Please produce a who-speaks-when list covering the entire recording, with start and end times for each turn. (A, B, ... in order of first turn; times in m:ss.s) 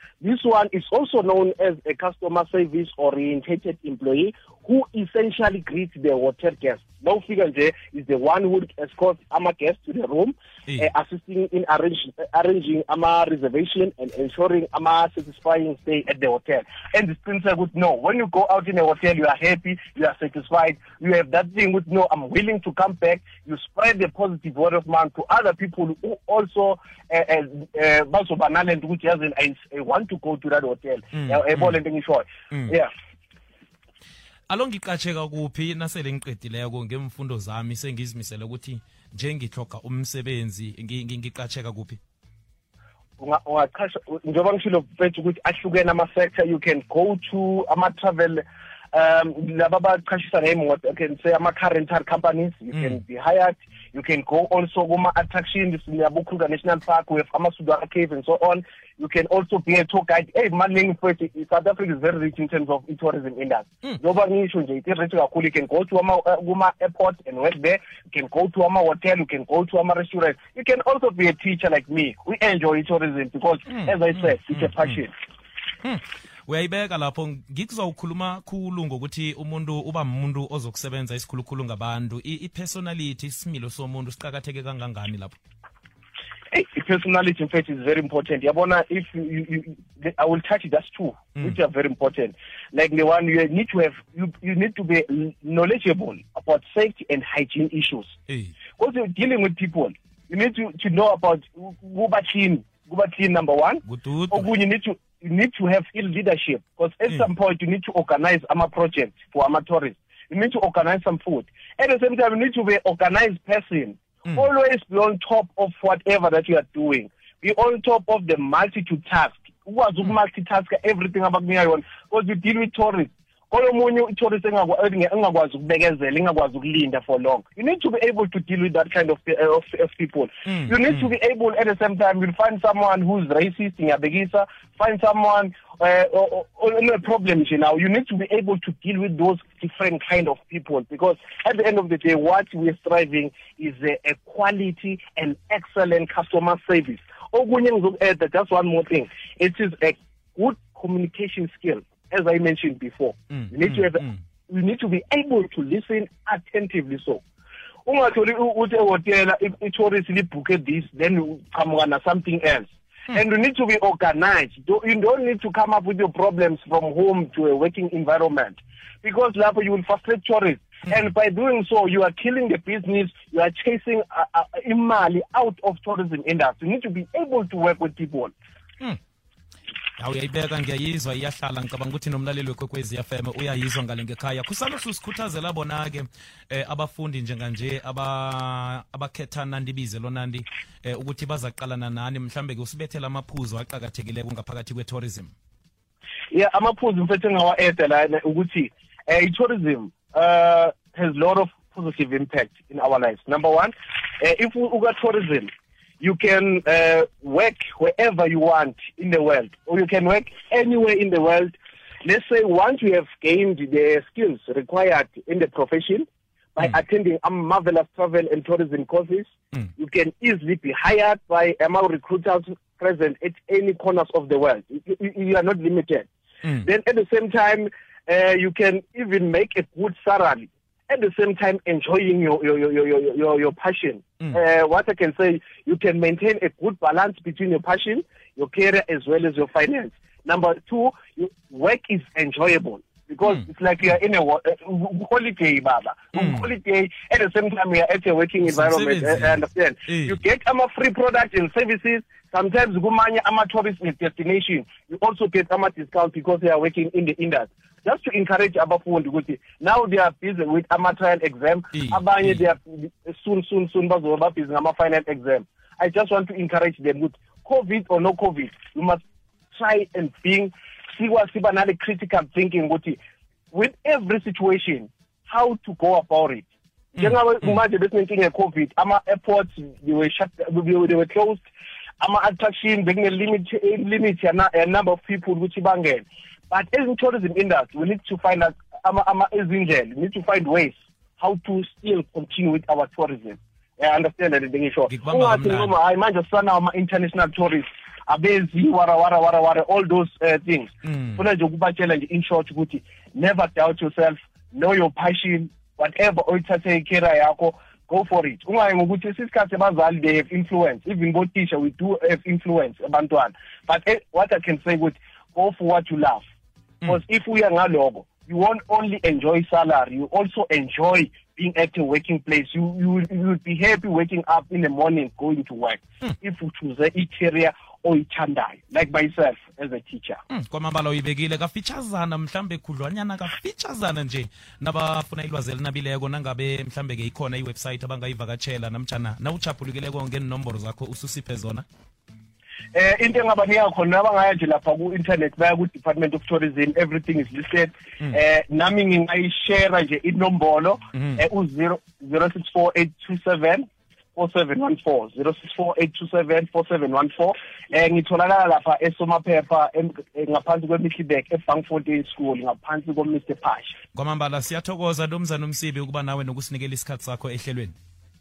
0:00.2-0:32.9 A
0:31.1-0:31.8 B
0:34.5-0:42.0 B
0:43.2-1:15.2 A
1:13.7-1:15.0 B
1:15.8-1:25.4 B
1:26.5-1:38.2 A
1:38.3-1:38.6 B
1:38.8-2:37.2 A
1:43.8-1:44.5 B
2:10.5-2:11.1 B
2:33.3-2:34.2 B
2:37.9-2:58.3 A
3:00.0-3:15.3 B
3:16.3-3:46.1 A
3:46.6-4:29.0 A
4:06.2-4:06.5 B
4:08.4-4:10.2 B
4:21.7-4:22.4 B
4:29.5-4:33.0 A
4:33.5-4:41.4 A
4:42.0-5:16.2 A
4:54.9-4:55.8 B
5:00.8-5:01.2 B
5:16.8-5:30.2 A
5:30.3-5:41.6 B
5:42.7-6:03.8 A
5:50.9-5:51.2 B
6:03.9-6:07.8 B